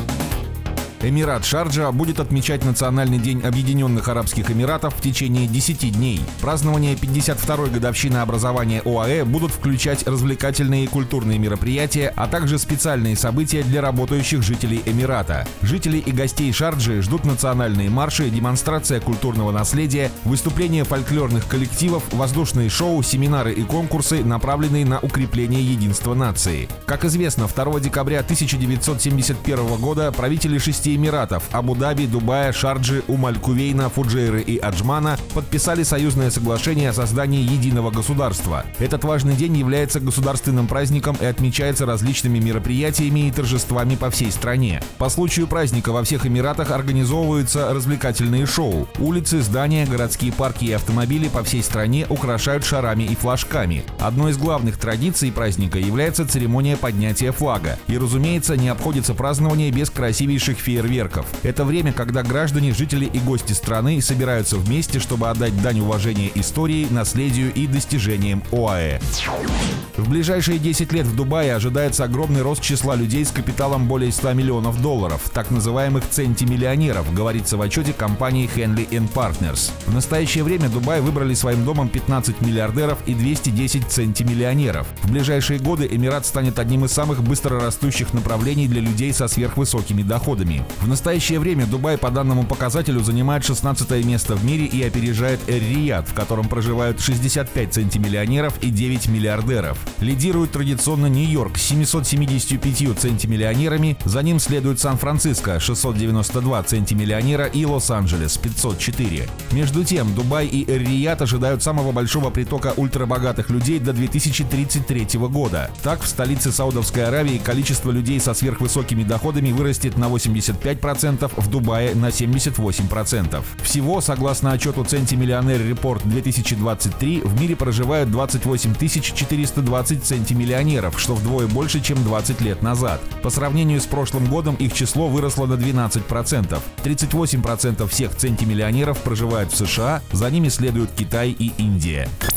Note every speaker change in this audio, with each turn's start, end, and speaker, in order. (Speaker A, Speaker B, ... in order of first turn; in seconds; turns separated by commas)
Speaker A: 1.0-69.0, Speaker A: 70.0-142.1